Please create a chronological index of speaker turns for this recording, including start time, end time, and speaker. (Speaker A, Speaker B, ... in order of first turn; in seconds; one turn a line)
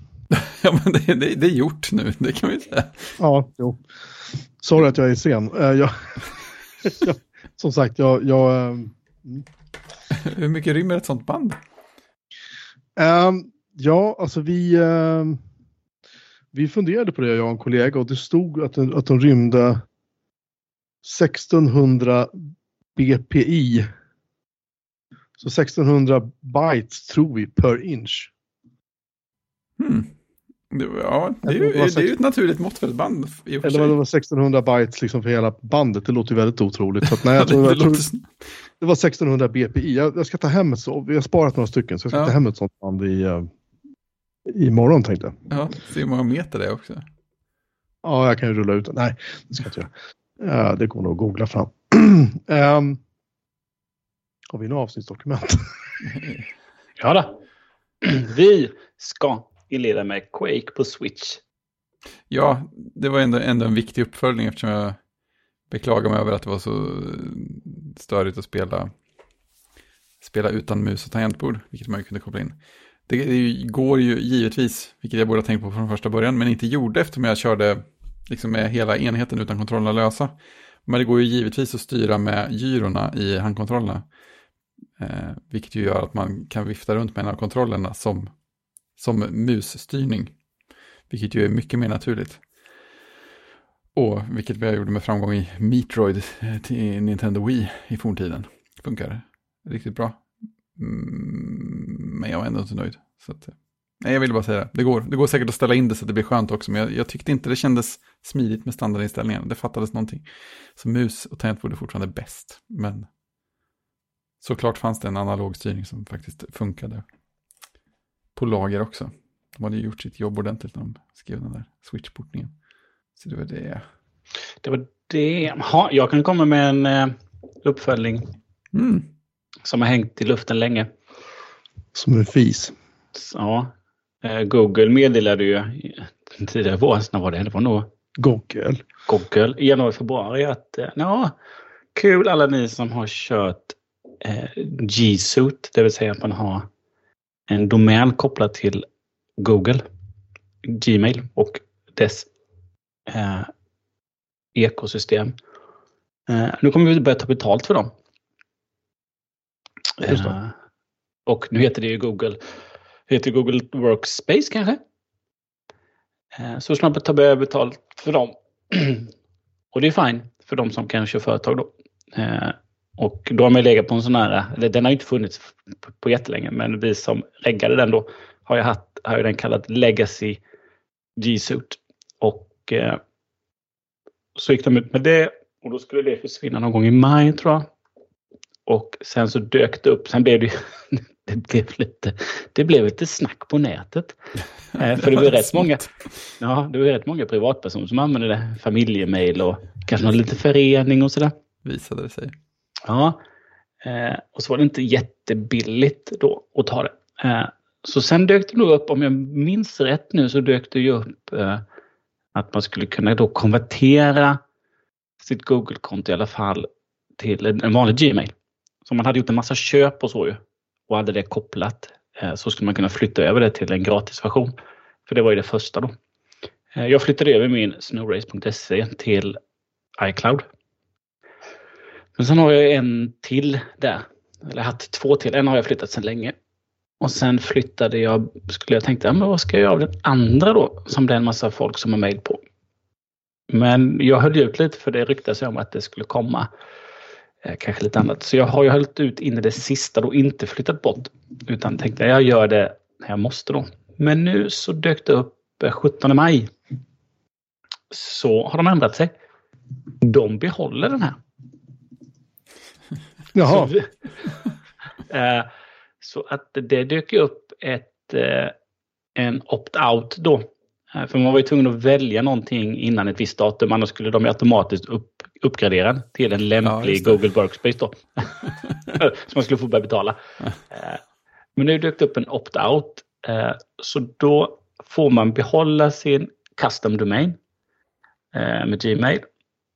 Speaker A: 0.3-3.2
Speaker B: 3.2-3.8
Speaker B: 4.6-9.4
Speaker A: 10.1-11.6
Speaker B: 13.0-15.4
Speaker B: 16.5-19.8
Speaker B: 21.0-22.3
Speaker B: 22.9-23.9
Speaker B: 25.4-28.3
Speaker A: 29.8-30.1
Speaker A: 30.7-33.9
Speaker B: 31.5-32.1
Speaker B: 33.6-38.0
Speaker A: 37.0-38.3
Speaker B: 38.8-43.5
Speaker B: 44.5-45.4
Speaker A: 45.5-47.0
Speaker B: 48.0-53.0
Speaker B: 54.5-55.7
Speaker A: 56.0-56.5
Speaker C: 57.0-57.4
Speaker C: 58.0-61.4
Speaker A: 62.3-65.0
Speaker A: 65.7-68.9
Speaker A: 70.2-84.1
Speaker A: 85.0-88.3
Speaker A: 89.0-90.3
Speaker A: 91.1-92.4
Speaker A: 93.9-110.2
Speaker A: 110.8-113.1
Speaker A: 114.4-117.0
Speaker A: 118.4-122.5
Speaker A: 123.2-123.8
Speaker C: 124.6-128.3
Speaker A: 128.7-129.1
Speaker C: 129.6-130.9
Speaker B: 131.9-132.7
Speaker C: 133.2-137.9
Speaker B: 138.2-138.8
Speaker C: 139.1-141.3
Speaker C: 141.9-146.7
Speaker C: 147.5-148.9
Speaker C: 149.4-149.8
Speaker C: 150.7-152.3
Speaker C: 153.1-153.5
Speaker C: 154.6-155.3
Speaker C: 156.3-157.9
Speaker C: 160.0-160.5
Speaker B: 160.0-160.3
Speaker C: 161.3-162.4
Speaker C: 163.1-164.8
Speaker C: 166.3-169.1
Speaker C: 169.7-180.4
Speaker C: 181.2-183.0
Speaker C: 184.3-187.7
Speaker C: 188.7-194.2
Speaker C: 194.8-195.8
Speaker A: 194.9-195.9
Speaker C: 196.4-201.3
Speaker A: 201.7-202.3
Speaker C: 202.9-203.2
Speaker C: 203.8-211.6
Speaker C: 212.3-214.4
Speaker C: 215.2-218.3
Speaker C: 218.8-224.5
Speaker C: 225.1-225.9
Speaker C: 226.8-229.4
Speaker C: 230.0-230.4
Speaker C: 232.2-236.3
Speaker C: 237.0-242.4
Speaker C: 243.5-246.5
Speaker C: 247.4-256.5
Speaker C: 257.9-259.1
Speaker C: 260.0-261.2
Speaker B: 263.4-263.7
Speaker C: 263.4-263.9
Speaker C: 265.1-265.5
Speaker C: 266.0-268.5
Speaker C: 269.2-280.2
Speaker A: 276.6-277.2
Speaker C: 280.7-281.0
Speaker C: 281.6-287.4
Speaker C: 288.3-289.2